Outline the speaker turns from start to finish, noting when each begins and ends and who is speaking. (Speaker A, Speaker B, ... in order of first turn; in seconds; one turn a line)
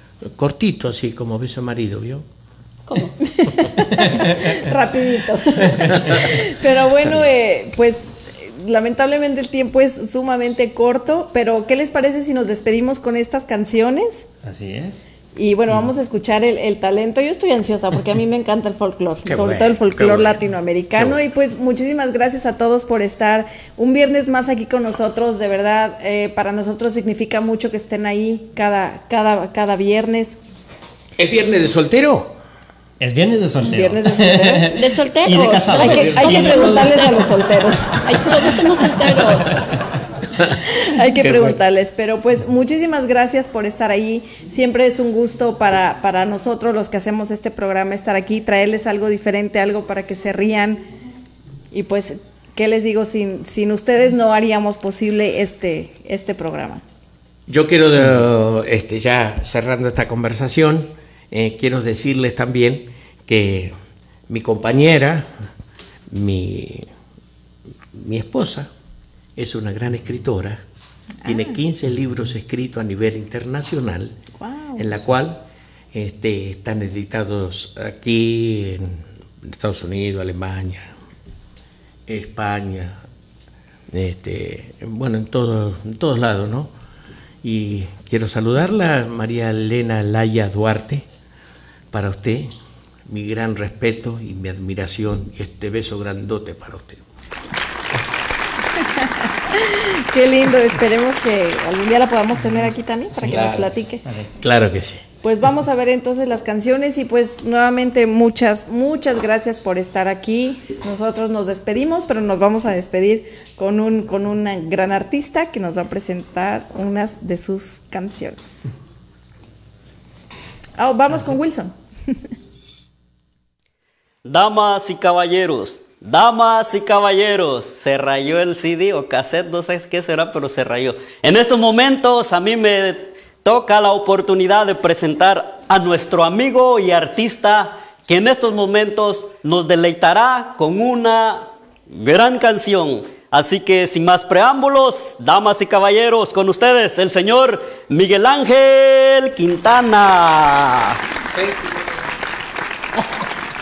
Speaker A: 0.2-2.2
Speaker B: 2.9-3.2
Speaker C: 3.4-14.2
Speaker D: 14.4-15.0
Speaker C: 15.4-30.4
Speaker A: 19.2-20.4
Speaker A: 20.9-21.2
Speaker A: 31.2-32.4
Speaker D: 33.0-36.6
Speaker C: 33.6-34.8
Speaker B: 34.7-39.6
Speaker C: 35.8-38.0
Speaker A: 35.9-37.0
Speaker A: 40.4-41.6
Speaker C: 40.7-50.9
Speaker C: 51.7-56.8
Speaker A: 57.5-63.8
Speaker A: 64.3-65.3
Speaker A: 66.1-66.9
Speaker A: 67.9-68.7
Speaker A: 69.4-70.6
Speaker A: 71.2-74.2
Speaker C: 71.3-71.6
Speaker C: 74.4-75.1
Speaker A: 74.8-75.4
Speaker A: 75.9-80.9
Speaker A: 82.1-83.0
Speaker A: 83.9-86.7
Speaker A: 87.4-91.1
Speaker A: 91.9-92.5
Speaker A: 93.1-97.0
Speaker C: 99.5-104.0
Speaker D: 103.1-104.3
Speaker A: 103.3-103.7
Speaker A: 104.4-105.0
Speaker C: 105.2-118.7
Speaker C: 120.8-121.7
Speaker E: 124.2-151.0
Speaker A: 151.2-151.7
Speaker A: 153.0-153.2